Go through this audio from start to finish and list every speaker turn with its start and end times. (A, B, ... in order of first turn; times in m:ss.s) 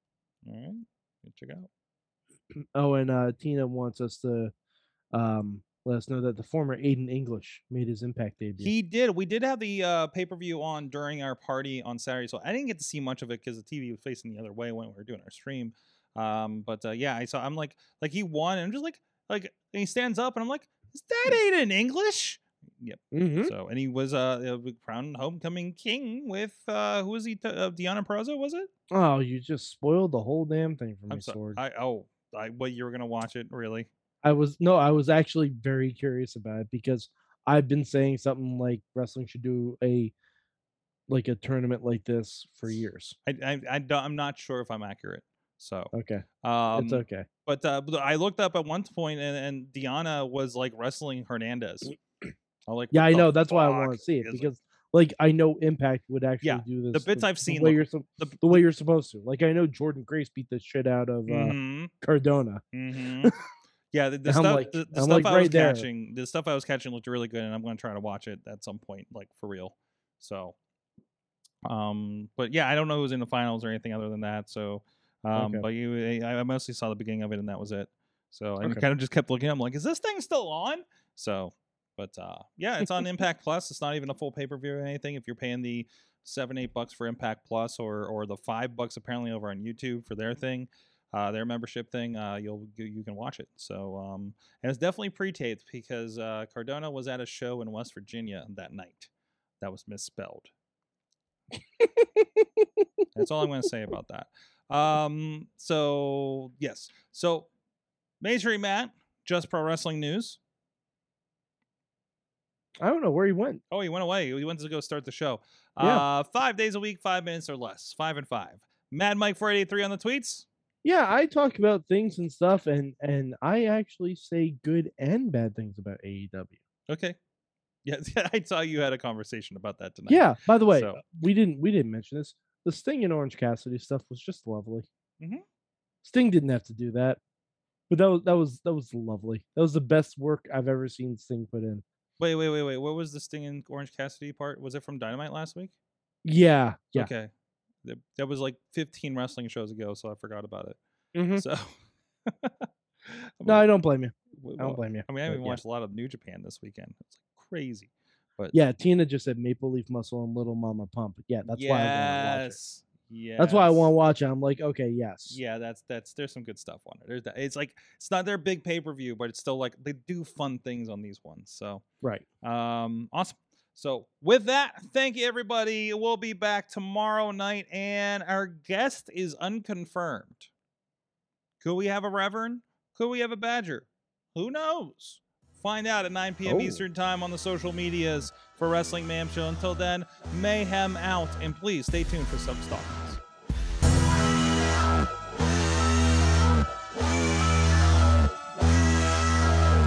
0:00.4-0:01.7 A
0:02.7-0:04.5 B
0:05.1-0:08.7 B
0:08.6-0:28.7 A
0:23.1-0:23.5 B
0:28.9-0:31.6 B
0:31.1-0:33.9 A
0:34.2-0:40.1 B
0:41.1-0:43.2 B
0:43.2-0:45.9 A
0:45.9-0:47.3 B
0:46.4-0:51.9 A
0:52.7-0:54.5 A
0:52.9-1:02.6 B
0:56.4-0:58.6 A
1:01.3-1:01.9 A
1:02.7-1:03.3 A
1:03.9-1:10.5 A
1:04.2-1:05.9 B
1:11.6-1:39.1 A
1:15.3-1:15.6 B
1:39.6-1:40.5 A
1:41.8-1:42.8 B
1:43.1-1:47.5 A
1:48.2-1:50.4 A
1:52.8-1:53.6 B
1:53.7-2:00.4 A
1:55.8-1:56.0 B
2:00.8-2:06.6 B
2:06.9-2:07.2 A
2:07.8-2:11.0 A
2:10.1-2:14.9 B
2:16.0-2:17.2 B
2:17.9-2:21.8 B
2:22.2-2:25.7 A
2:26.2-2:27.1 B
2:26.9-2:27.3 A
2:27.8-2:30.8 A
2:31.1-2:31.4 B
2:31.3-2:31.7 A
2:32.2-2:33.6 A
2:33.4-2:35.6 B
2:34.4-2:38.6 A
2:38.5-2:42.6 B
2:41.5-2:43.9 A
2:43.4-2:45.4 B
2:45.3-2:51.8 A
2:52.4-3:00.5 A
3:01.6-3:13.2 A
3:06.4-3:06.8 B